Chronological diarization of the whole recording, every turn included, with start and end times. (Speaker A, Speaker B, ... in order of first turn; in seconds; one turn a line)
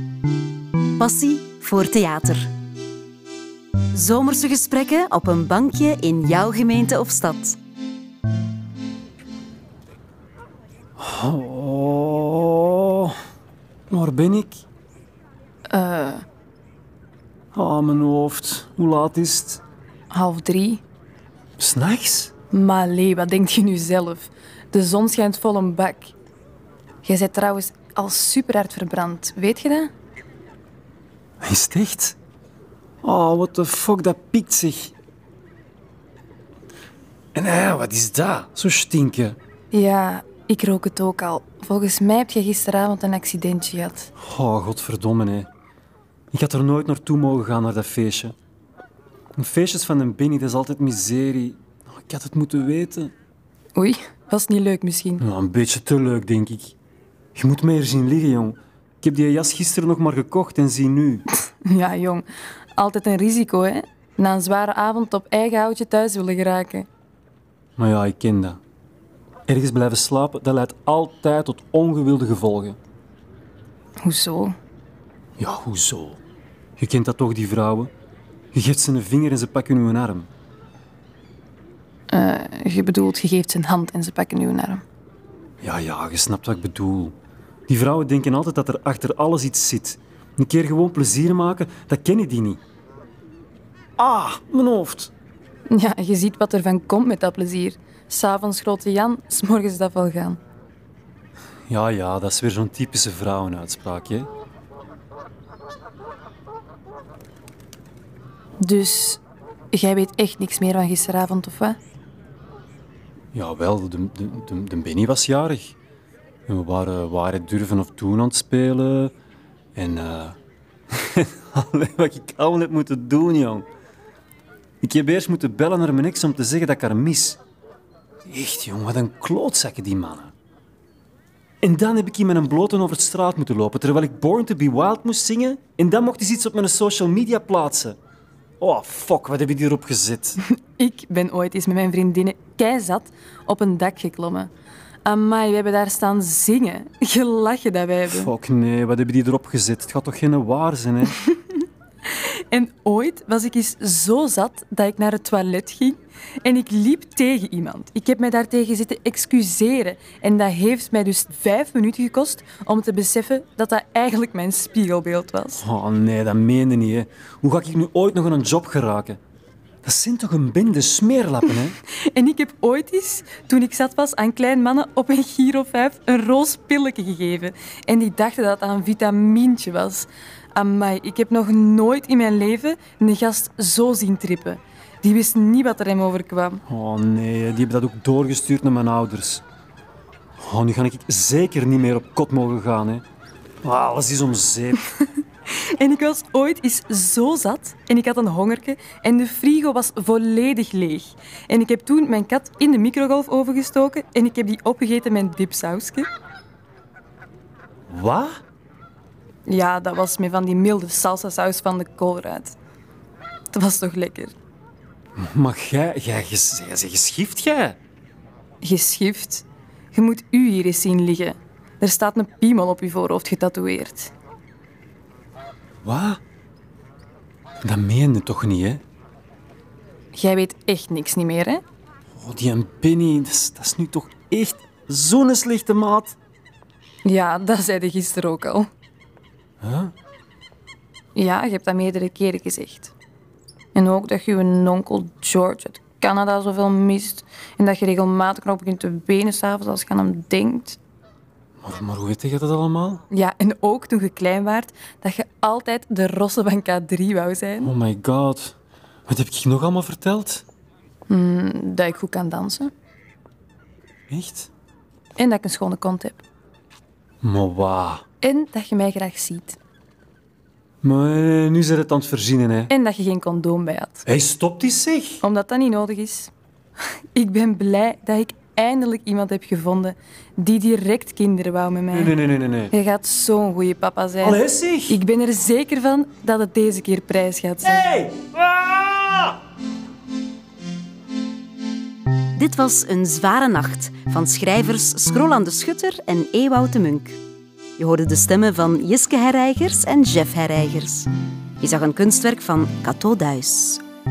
Speaker A: 1.0-2.5
Speaker A: 3.9-7.6
Speaker B: 11.0-13.2
Speaker B: 13.9-14.6
Speaker C: 15.7-16.2
Speaker B: 17.5-19.6
Speaker C: 20.1-20.8
Speaker B: 21.6-22.3
Speaker C: 22.5-26.1
Speaker C: 27.0-29.9
Speaker B: 31.4-32.2
Speaker B: 33.0-34.9
Speaker B: 37.4-39.4
Speaker C: 39.7-44.1
Speaker B: 44.2-45.5
Speaker B: 46.3-48.4
Speaker B: 49.4-53.1
Speaker C: 53.8-55.2
Speaker B: 55.2-56.8
Speaker B: 57.4-61.2
Speaker C: 61.6-62.3
Speaker C: 62.8-66.9
Speaker B: 67.8-68.6
Speaker B: 69.5-72.8
Speaker C: 74.0-74.5
Speaker B: 75.4-76.2
Speaker B: 76.8-77.9
Speaker B: 78.5-80.3
Speaker C: 82.1-84.8
Speaker B: 85.6-87.2
Speaker B: 87.7-92.6
Speaker B: 94.0-95.1
Speaker C: 95.7-100.4
Speaker B: 101.7-104.3
Speaker C: 108.6-109.2
Speaker C: 109.7-111.8
Speaker B: 113.3-115.8
Speaker B: 116.5-119.1
Speaker B: 119.8-120.4
Speaker B: 120.9-123.7
Speaker B: 124.8-127.4
Speaker B: 128.3-130.3
Speaker B: 131.6-138.0
Speaker B: 138.6-140.4
Speaker C: 140.4-144.5
Speaker C: 145.1-148.3
Speaker B: 148.1-151.2
Speaker C: 151.1-165.6
Speaker B: 165.6-169.2
Speaker B: 169.8-171.8
Speaker C: 171.9-186.6
Speaker B: 186.7-189.4
Speaker B: 190.4-193.0
Speaker B: 193.6-194.8
Speaker C: 194.9-206.1
Speaker B: 207.9-208.3
Speaker C: 209.5-212.6
Speaker C: 213.5-214.3
Speaker B: 215.2-217.8
Speaker C: 218.6-224.1
Speaker B: 225.8-226.2
Speaker B: 227.6-228.8
Speaker C: 230.1-231.6
Speaker B: 232.2-236.2
Speaker C: 237.1-238.7
Speaker B: 239.6-239.9
Speaker C: 241.2-242.9
Speaker C: 243.8-250.8
Speaker B: 251.6-253.0
Speaker C: 253.1-257.7
Speaker B: 257.6-260.4
Speaker C: 261.1-262.7
Speaker B: 264.1-264.5
Speaker C: 265.2-266.2
Speaker B: 267.2-268.0
Speaker C: 268.2-269.6
Speaker B: 270.8-272.7
Speaker C: 272.7-274.0
Speaker B: 274.1-275.2
Speaker C: 275.2-276.3
Speaker C: 277.1-282.1
Speaker B: 281.9-282.7
Speaker C: 282.7-287.9
Speaker B: 284.2-285.0
Speaker B: 287.6-289.4
Speaker A: 292.3-297.2
Speaker A: 297.8-301.1
Speaker A: 301.6-303.8